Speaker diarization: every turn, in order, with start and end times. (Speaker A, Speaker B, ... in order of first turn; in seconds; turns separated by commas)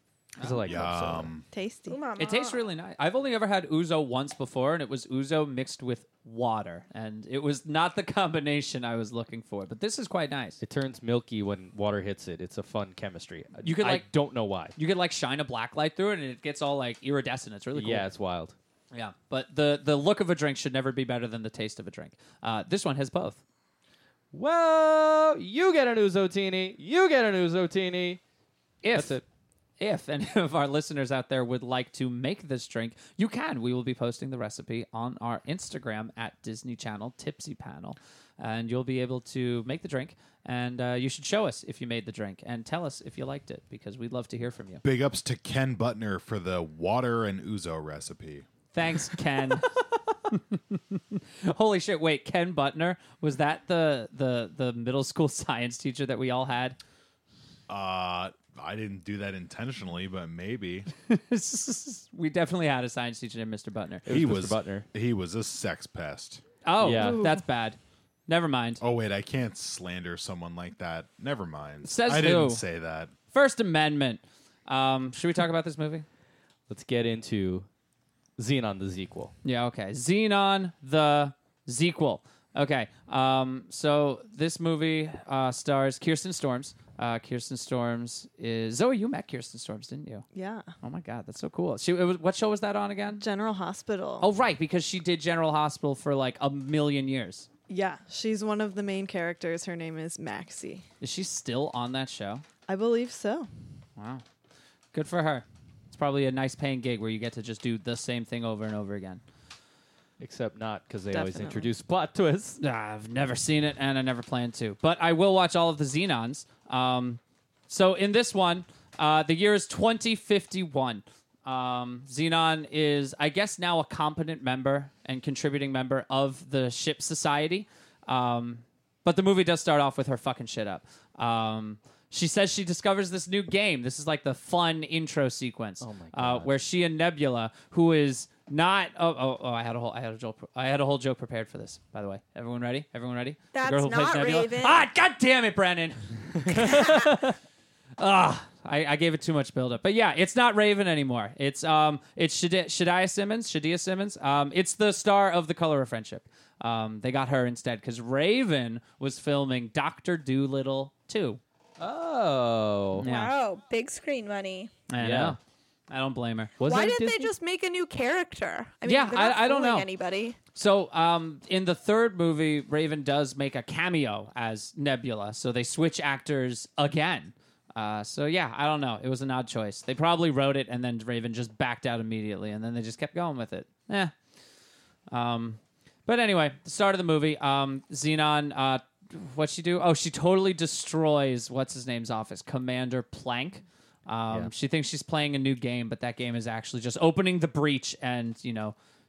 Speaker A: 0.4-0.7, Speaker B: 0.4-1.3, Speaker C: 0.7-1.4, Speaker D: 1.5-2.0, Speaker E: 1.9-2.6, Speaker A: 2.2-10.6, Speaker B: 10.6-14.8, Speaker A: 13.6-14.1, Speaker A: 14.8-18.1, Speaker B: 17.7-18.6, Speaker A: 18.9-23.4, Speaker B: 24.3-28.2, Speaker A: 28.8-29.2, Speaker B: 28.9-29.2, Speaker A: 29.8-44.8, Speaker C: 44.8-48.5, Speaker A: 48.7-49.7, Speaker A: 50.3-56.8, Speaker C: 57.7-60.9, Speaker A: 61.0-64.1, Speaker B: 64.1-64.9, Speaker C: 64.1-66.4, Speaker A: 66.7-68.8, Speaker B: 66.8-67.4, Speaker D: 67.0-67.3, Speaker C: 68.8-73.1, Speaker A: 71.8-72.6, Speaker A: 73.3-76.1, Speaker B: 76.7-77.7, Speaker B: 78.4-79.3, Speaker A: 79.4-90.2, Speaker D: 90.3-90.7, Speaker A: 90.8-93.2, Speaker D: 93.2-94.3, Speaker A: 94.2-97.5, Speaker D: 97.7-100.8, Speaker A: 101.0-102.4, Speaker D: 102.7-103.5, Speaker A: 104.0-104.2, Speaker A: 104.9-109.2, Speaker B: 110.2-112.6, Speaker D: 111.1-111.7, Speaker A: 112.6-147.0, Speaker B: 135.8-136.5, Speaker E: 143.5-144.8, Speaker E: 146.6-147.1, Speaker A: 148.0-161.4, Speaker B: 161.8-163.1, Speaker A: 163.0-163.3, Speaker E: 163.0-164.7, Speaker A: 164.9-165.4, Speaker B: 165.0-165.4, Speaker A: 165.9-166.5, Speaker B: 166.6-167.3, Speaker E: 166.6-170.4, Speaker A: 168.9-169.9, Speaker A: 170.6-184.1, Speaker A: 185.1-198.8